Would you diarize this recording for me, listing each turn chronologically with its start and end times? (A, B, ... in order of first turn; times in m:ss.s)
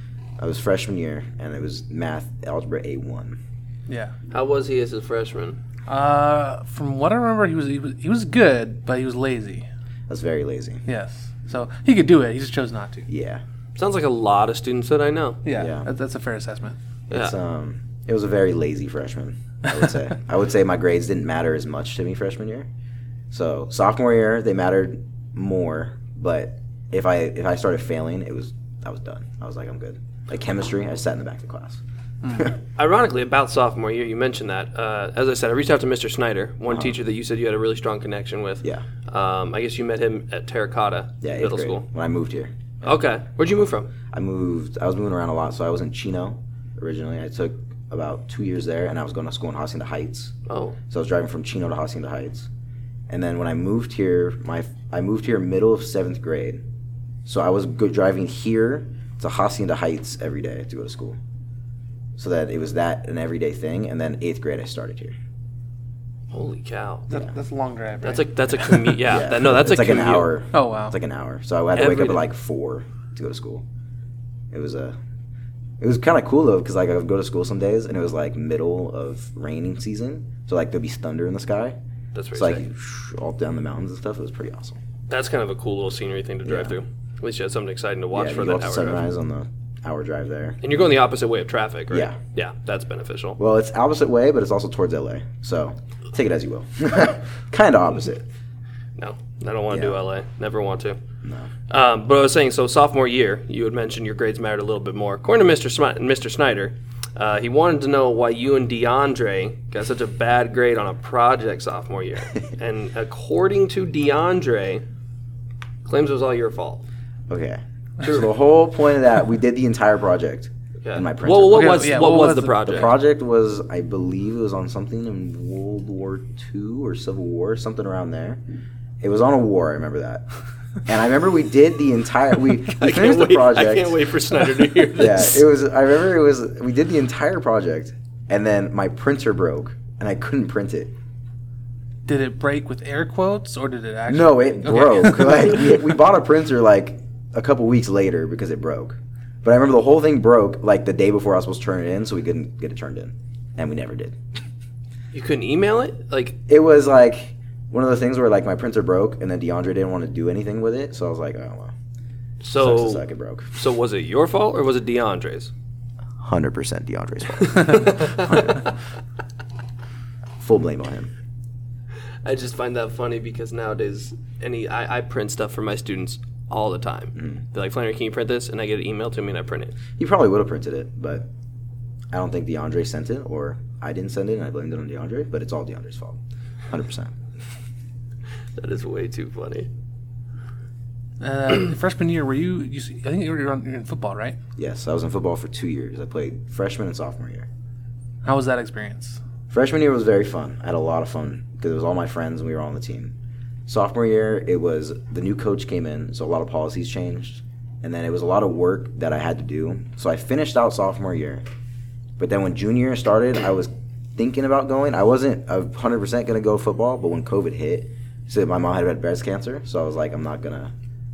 0:00.4-0:03.4 A
0:03.9-0:04.1 B
0:04.3-0:05.6 C
0:05.9-0:09.6 B
0:10.1-0:10.8 A
0:10.9-0:13.0 B
0:13.1-0:13.4 A
0:13.8-0:15.4 C
0:15.4-0:16.8 B
0:15.5-0:15.9 A
0:17.1-0:22.7 A
0:23.3-0:31.8 A
0:32.8-0:41.8 C
0:36.7-0:37.0 A
0:41.2-0:42.9 A
0:42.8-0:43.9 C
0:44.1-0:50.3 A
0:50.5-0:50.8 C
0:50.9-0:52.5 A
0:53.1-0:56.6 A
0:57.2-1:01.2 A
1:02.2-1:05.2 A
1:06.3-1:07.1 C
1:07.1-1:08.9 B
1:08.0-1:10.3 C
1:09.0-1:13.6 A
1:10.5-1:10.9 B
1:11.7-1:12.2 C
1:14.5-1:15.0 A
1:15.8-1:21.8 A
1:22.1-1:22.6 C
1:22.3-1:24.8 A
1:25.1-1:29.0 C
1:26.4-1:26.8 A
1:28.1-1:30.7 A
1:30.6-1:33.4 C
1:31.9-1:32.2 A
1:33.4-1:38.3 A
1:39.0-1:41.0 C
1:39.7-1:40.0 A
1:41.2-1:41.5 A
1:41.7-1:54.8 C
1:55.8-1:56.8 C
1:57.3-2:08.4 A
2:00.8-2:02.9 C
2:01.5-2:02.6 B
2:09.0-2:10.3 A
2:10.8-2:14.0 A
2:12.7-2:15.4 C
2:14.9-2:20.9 A
2:22.0-2:25.8 B
2:24.1-2:34.2 A
2:35.1-2:36.4 C
2:36.5-2:41.7 A
2:42.4-2:45.5 C
2:42.6-2:43.5 A
2:46.2-2:48.5 A
2:47.4-2:48.7 C
2:50.4-2:51.1 A
2:52.2-2:59.8 C
2:57.2-2:57.4 A
3:00.0-3:01.3 A
3:02.1-3:07.2 A
3:08.6-3:09.7 C
3:11.2-3:14.4 B
3:14.6-3:17.5 A
3:18.2-3:19.2 B
3:19.5-3:23.1 A
3:23.7-3:31.4 A
3:32.2-3:40.7 A